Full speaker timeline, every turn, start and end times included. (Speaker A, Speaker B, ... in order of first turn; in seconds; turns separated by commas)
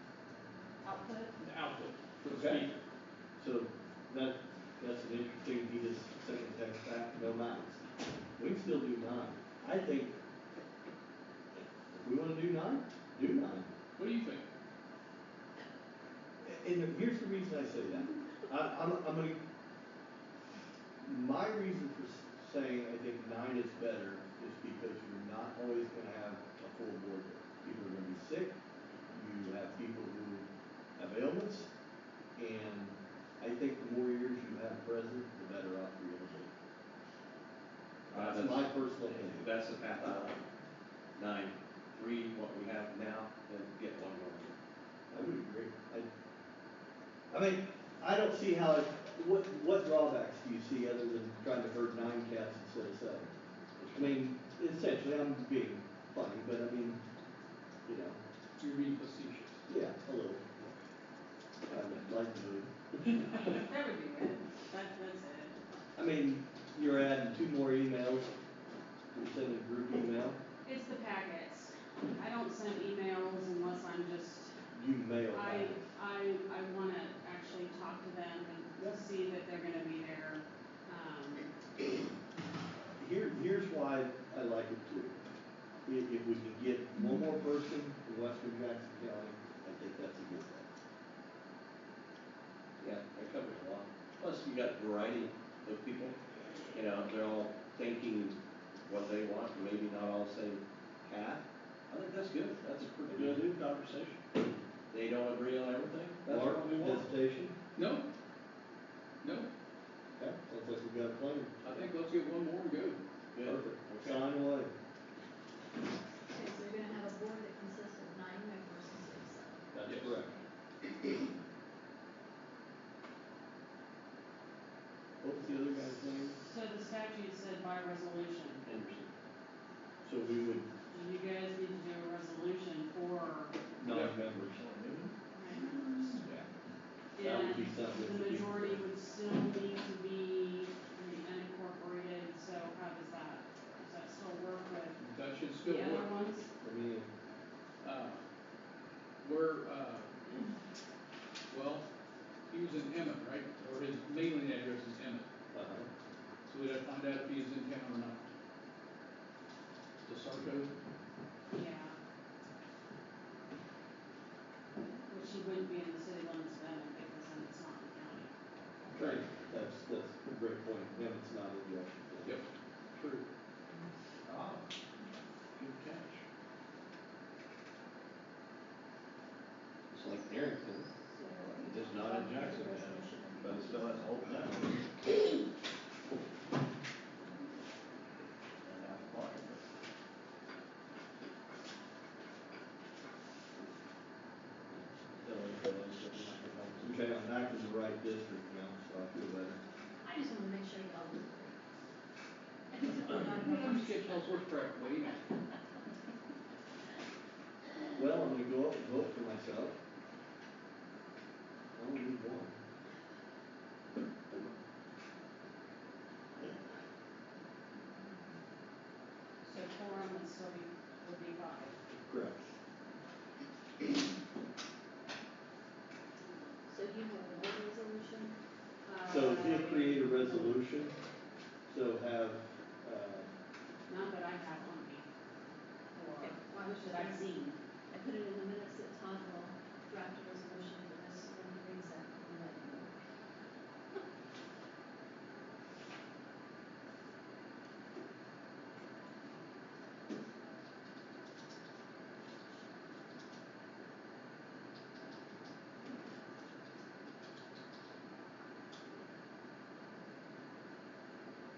Speaker A: 0.8-1.2, Speaker B: 1.4-2.8, Speaker C: 2.2-2.6, Speaker C: 3.4-7.8, Speaker C: 8.4-10.1, Speaker C: 11.9-13.7, Speaker B: 13.9-14.4, Speaker C: 16.4-19.4, Speaker C: 21.0-28.6, Speaker C: 29.1-30.4, Speaker C: 31.0-31.7, Speaker C: 32.4-36.5, Speaker C: 38.1-39.5, Speaker D: 38.1-40.4, Speaker D: 41.1-44.5, Speaker C: 45.1-46.1, Speaker C: 47.3-53.3, Speaker C: 53.8-57.0, Speaker C: 57.9-58.2, Speaker B: 58.6-59.6, Speaker C: 59.7-60.5, Speaker C: 61.7-62.7, Speaker A: 63.5-65.6, Speaker C: 66.0-68.3, Speaker C: 69.1-70.4, Speaker A: 70.6-74.5, Speaker C: 74.7-75.8, Speaker A: 75.3-81.5, Speaker C: 82.9-85.2, Speaker C: 85.8-90.7, Speaker D: 92.8-96.2, Speaker D: 96.7-104.2, Speaker C: 103.1-103.5, Speaker D: 104.9-107.1, Speaker C: 106.2-107.5, Speaker B: 107.7-108.1, Speaker B: 109.2-109.5, Speaker C: 110.2-111.8, Speaker B: 111.6-113.0, Speaker D: 113.3-114.2, Speaker C: 113.4-114.7, Speaker E: 116.3-119.7, Speaker C: 119.7-120.4, Speaker B: 119.8-120.1, Speaker C: 125.2-126.4, Speaker A: 126.4-128.7, Speaker D: 128.6-129.1, Speaker C: 130.0-130.7, Speaker A: 130.9-133.5, Speaker C: 133.8-134.6, Speaker B: 133.8-134.2, Speaker D: 134.6-135.1, Speaker A: 135.3-136.2, Speaker B: 135.6-136.4, Speaker A: 137.2-145.0, Speaker C: 137.2-138.8, Speaker B: 145.0-146.1, Speaker A: 145.6-146.5, Speaker C: 146.6-147.1, Speaker B: 147.8-148.2, Speaker B: 149.2-150.3, Speaker B: 151.5-151.8, Speaker B: 152.5-155.2, Speaker C: 155.5-155.9, Speaker B: 156.4-158.2, Speaker B: 160.0-160.7, Speaker A: 161.5-161.9, Speaker A: 165.1-168.3, Speaker B: 168.9-169.2, Speaker C: 168.9-172.3, Speaker B: 172.2-173.2, Speaker B: 174.3-174.6, Speaker D: 175.6-176.2, Speaker D: 179.9-180.9, Speaker E: 180.9-184.1, Speaker D: 181.7-184.8, Speaker D: 188.6-189.7, Speaker D: 195.2-196.9, Speaker C: 196.8-199.6, Speaker E: 200.0-201.6, Speaker E: 202.7-204.4, Speaker B: 203.1-205.2, Speaker C: 207.9-209.8, Speaker C: 211.7-212.6, Speaker A: 219.4-221.8, Speaker C: 222.0-222.4, Speaker E: 226.7-228.3, Speaker A: 228.8-230.6, Speaker C: 229.1-230.9, Speaker C: 231.7-233.3, Speaker A: 233.9-235.0, Speaker A: 235.9-237.6, Speaker E: 236.2-237.3, Speaker E: 237.9-243.0